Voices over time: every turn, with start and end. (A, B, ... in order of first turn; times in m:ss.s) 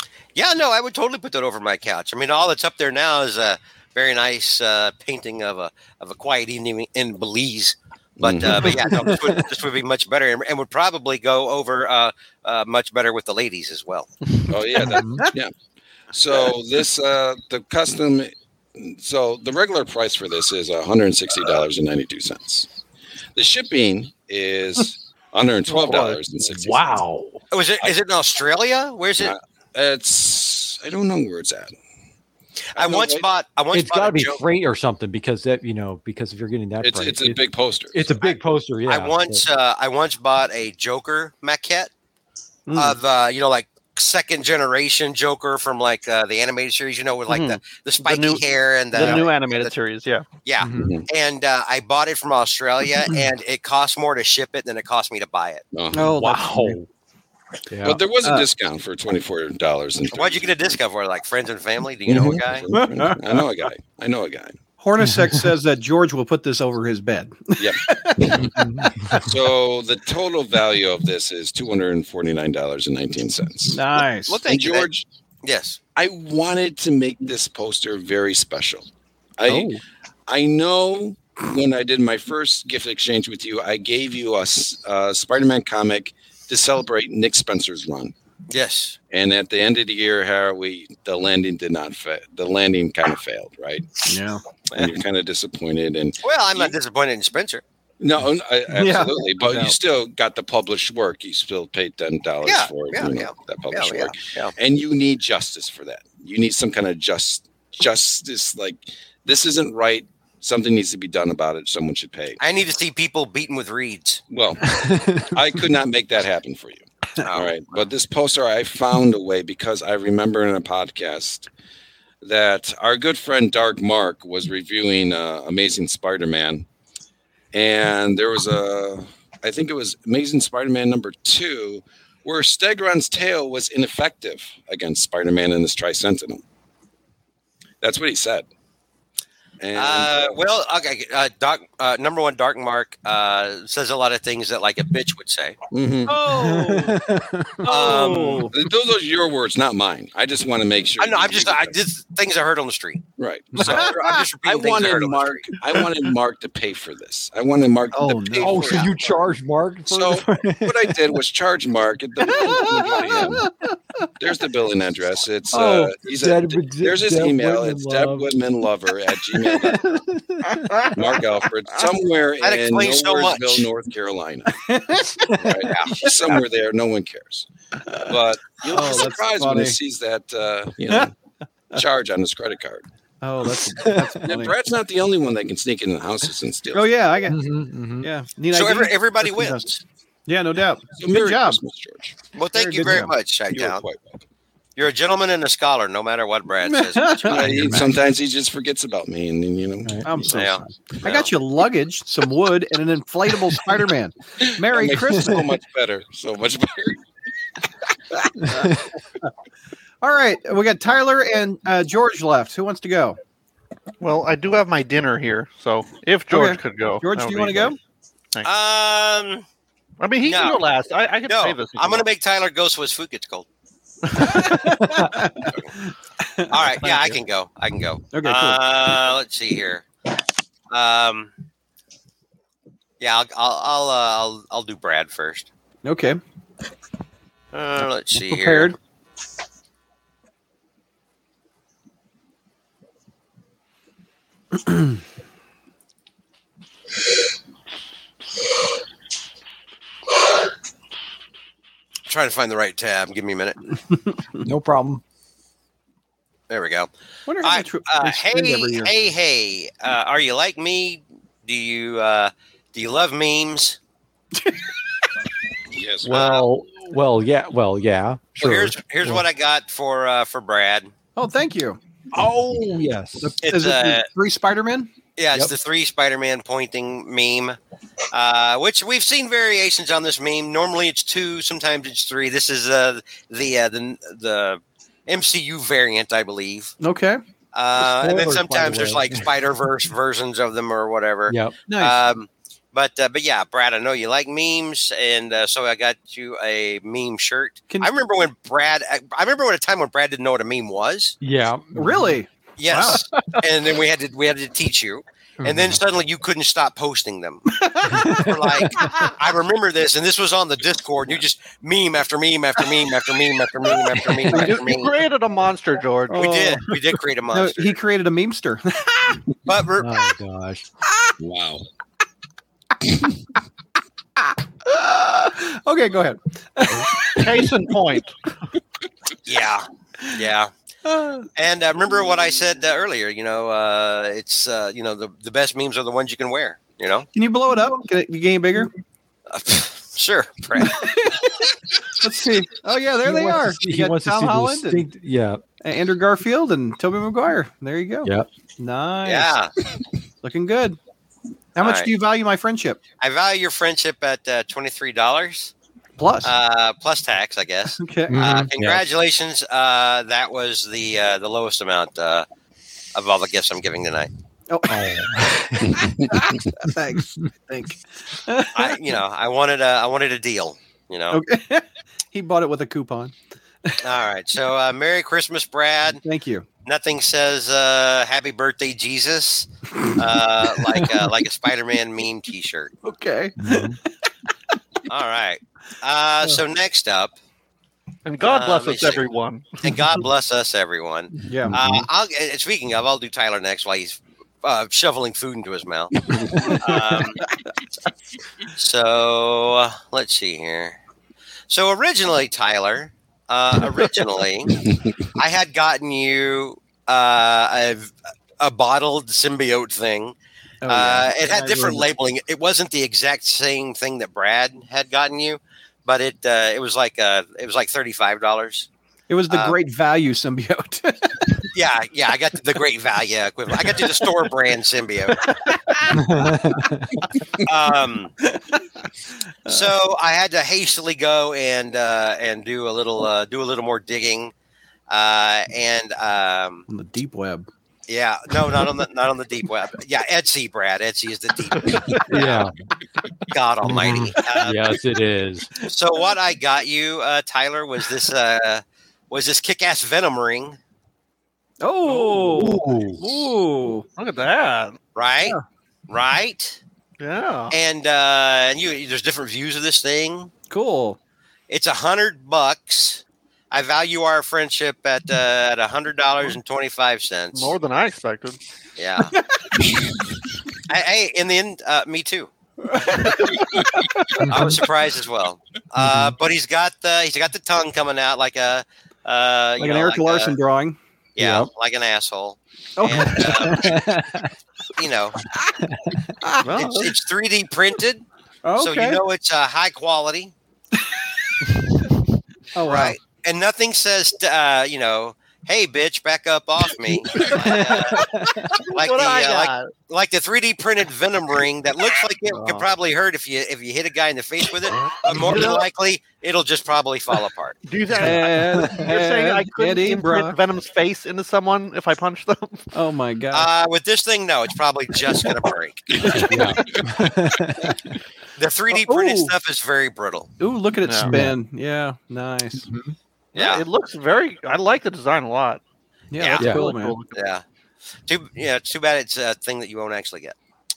0:00.3-0:14.1 A
0:08.2-0:09.1 B
0:08.6-0:09.4 C
0:14.5-0:15.5 B
0:14.8-0:15.2 C
0:16.1-0:22.7 B
0:23.4-0:27.0 B
0:25.7-0:26.1 D
0:25.8-0:27.4 C
0:27.5-0:29.3 A
0:29.2-0:31.7 B
0:32.7-0:34.4 A
0:32.8-0:33.2 B
0:33.7-0:39.4 C
0:36.8-0:38.2 B
0:38.2-0:41.9 A
0:42.7-0:43.0 E
0:42.7-0:49.7 A
0:47.3-0:50.2 D
0:50.4-0:55.6 A
0:50.6-0:50.9 C
0:50.7-0:51.1 B
0:55.7-0:56.2 B
0:55.9-0:56.8 E
0:56.2-0:56.9 C
0:57.7-0:58.0 C
0:57.8-1:00.8 B
0:58.2-0:58.5 E
1:00.1-1:02.7 A
1:02.0-1:04.6 B
1:02.7-1:03.5 E
1:04.8-1:08.6 E
1:05.0-1:05.4 C
1:07.6-1:13.9 B
1:08.4-1:09.3 C
1:13.7-1:14.4 E
1:14.3-1:14.9 A
1:14.5-1:15.0 B
1:15.4-1:15.8 A
1:15.9-1:18.9 B
1:19.4-1:19.7 B
1:19.5-1:19.8 E
1:20.3-1:28.1 B
1:28.5-1:29.0 A
1:29.1-1:33.9 B
1:34.1-1:34.4 E
1:34.7-1:36.7 B
1:36.2-1:37.6 A
1:38.0-1:52.4 B
1:38.7-1:39.7 E
1:42.4-1:44.5 A
1:52.4-1:54.2 A
1:54.3-2:01.5 B
1:54.8-1:55.3 C
1:57.2-1:57.8 A
2:02.2-2:06.6 B
2:07.5-2:16.4 B
2:17.8-2:18.5 B
2:19.6-2:20.4 B
2:19.7-2:25.6 A
2:25.7-2:26.2 B
2:26.1-2:28.6 E
2:26.3-2:27.4 C
2:27.6-2:28.5 A
2:28.5-2:31.8 B
2:31.0-2:35.6 A
2:33.2-2:39.0 B
2:33.6-2:34.3 E
2:37.9-2:38.8 E
2:38.4-2:41.0 C
2:38.5-2:38.9 A
2:39.9-2:43.5 B
2:42.3-2:43.5 E
2:44.2-2:49.9 B
2:45.5-2:45.9 E
2:46.0-2:48.3 C
2:49.7-2:50.8 C
2:50.9-2:54.6 B
2:52.4-2:53.7 A
2:54.6-2:55.5 E
2:55.3-2:57.5 B
2:55.6-2:56.1 A
2:57.9-2:59.8 E
2:58.0-3:01.1 B
3:01.7-3:02.8 B
3:03.2-3:04.5 E
3:03.8-3:04.2 C
3:04.2-3:06.9 B
3:06.7-3:07.4 E
3:07.3-3:08.1 C
3:08.0-3:09.7 E
3:08.5-3:09.8 A
3:10.3-3:11.6 E
3:11.0-3:12.2 B
3:12.3-3:13.8 A
3:12.5-3:13.1 E
3:12.9-3:14.2 B
3:14.8-3:17.6 A
3:16.6-3:17.7 E
3:17.2-3:20.3 B
3:17.4-3:17.8 C
3:19.8-3:20.2 C
3:20.0-3:25.5 E
3:20.3-3:21.3 A
3:24.4-3:27.0 B
3:30.0-3:33.2 E
3:34.0-3:37.8 D
3:36.3-3:37.8 E
3:38.4-3:39.4 A
3:40.0-3:42.1 D
3:40.2-3:40.6 A
3:41.3-3:43.5 A
3:44.1-3:44.6 D
3:44.2-3:46.7 E
3:44.8-3:45.1 C
3:46.5-3:49.8 A
3:46.8-3:47.2 D
3:48.1-3:48.6 E
3:50.7-3:51.3 A
3:53.0-3:55.5 A
3:55.8-3:56.2 E
3:57.5-3:58.7 A
3:58.2-3:58.8 E
4:12.1-4:13.6 A
4:14.4-4:15.0 C
4:16.5-4:16.9 A
4:17.2-4:18.9 E
4:17.4-4:23.8 A
4:24.4-4:24.7 E
4:25.7-4:26.3 B
4:26.0-4:29.2 C
4:26.1-4:26.4 A
4:28.4-4:30.9 A
4:31.2-4:31.8 E
4:32.1-4:33.3 C
4:33.2-4:34.9 E
4:33.4-4:34.1 A
4:35.2-4:37.6 A
4:38.1-4:46.7 A
4:46.8-4:47.2 E
4:47.5-5:01.2 A
4:47.8-4:49.2 C
4:51.3-4:51.5 C
4:51.7-4:52.0 E
5:01.2-5:02.2 C
5:01.7-5:03.0 E
5:02.6-5:07.4 A
5:02.9-5:03.2 C
5:05.4-5:05.7 C
5:07.6-5:08.2 E
5:07.9-5:08.9 C
5:08.1-5:14.9 A
5:14.3-5:16.3 D
5:16.1-5:16.8 E
5:16.1-5:17.8 A
5:17.3-5:19.2 E
5:19.4-5:20.0 A
5:19.8-5:20.6 C
5:21.2-5:21.6 B
5:24.6-5:27.4 E
5:27.2-5:28.1 D
5:29.2-5:30.5 A
5:30.8-5:31.3 E
5:31.4-5:37.1 A
5:37.1-5:38.7 E
5:39.3-5:41.0 A
5:40.6-5:41.3 E
5:42.0-5:44.8 E
5:43.0-5:45.4 C
5:45.6-5:49.4 E
5:49.0-5:49.5 A
5:50.2-5:50.8 E
5:51.6-5:52.8 E
5:51.6-5:51.9 A
5:53.0-5:55.5 A
5:56.0-5:56.3 E
5:56.2-6:02.2 A
5:57.7-5:58.3 E
5:58.1-5:58.8 C
6:02.9-6:04.1 A
6:04.5-6:05.2 E
6:04.7-6:05.9 C
6:05.7-6:06.2 B
6:06.0-6:08.8 E
6:08.5-6:11.2 A
6:11.1-6:13.1 E
6:13.8-6:16.0 A
6:15.9-6:16.4 E
6:16.6-6:22.7 A
6:22.8-6:23.8 E
6:23.4-6:23.8 C
6:24.9-6:27.1 A
6:28.0-6:29.8 D
6:28.2-6:29.0 A
6:29.6-6:37.2 A
6:31.3-6:31.6 E
6:31.5-6:31.8 C
6:36.1-6:36.5 B
6:38.6-6:40.8 A
6:41.5-6:44.6 A
6:44.6-6:45.0 B
6:45.1-6:50.1 A
6:50.6-6:51.9 E
6:50.6-6:58.7 A
6:59.1-7:01.4 E
6:59.3-6:59.6 A
7:01.5-7:05.3 A
7:05.3-7:06.3 E
7:05.9-7:07.0 C
7:07.4-7:08.1 A
7:08.2-7:08.6 E
7:09.4-7:09.7 E
7:09.5-7:14.3 A
7:14.9-7:16.6 A
7:16.7-7:17.5 E
7:17.9-7:22.5 A
7:22.1-7:22.5 C
7:23.3-7:24.8 A
7:23.6-7:25.5 C
7:25.6-7:30.6 A
7:31.6-7:33.8 E
7:31.8-7:32.4 D
7:32.3-7:33.2 C
7:34.0-7:34.8 D
7:34.9-7:35.4 A
7:35.9-7:36.6 A
7:37.0-7:37.6 D
7:37.5-7:40.3 A
7:40.5-7:41.0 E
7:41.5-7:47.6 A
7:47.3-7:48.4 D
7:48.8-7:49.2 A
7:50.7-7:52.3 A
7:52.7-7:54.1 E
7:54.2-7:54.6 C
7:54.3-8:00.3 A
7:55.8-7:56.1 C
7:59.6-8:00.8 E
8:01.2-8:03.8 A
8:01.2-8:01.5 C
8:02.8-8:03.7 E
8:03.4-8:04.3 C
8:04.8-8:05.2 A
8:05.6-8:06.0 C
8:06.2-8:06.9 E
8:06.6-8:08.0 A
8:08.4-8:09.0 E
8:08.6-8:10.3 A
8:12.6-8:13.0 E
8:12.6-8:18.0 A
8:17.2-8:17.7 D
8:17.9-8:18.5 C
8:18.5-8:19.7 D
8:18.7-8:27.6 A
8:22.3-8:22.6 D
8:24.9-8:25.7 D
8:27.6-8:32.7 D
8:28.0-8:30.4 E
8:28.1-8:28.8 C
8:32.7-8:33.5 E
8:33.3-8:36.1 A
8:36.1-8:36.5 E
8:36.2-8:37.9 C
8:38.4-8:40.3 A
8:38.7-8:39.4 E
8:40.4-8:42.7 E
8:40.8-8:41.1 D
8:41.0-8:41.4 C
8:42.6-8:42.9 C
8:43.3-8:43.6 A
8:43.3-8:45.6 D
8:46.1-8:47.0 E
8:46.2-8:46.5 A
8:46.4-8:47.2 D
8:47.1-8:47.4 A
8:48.1-8:50.4 A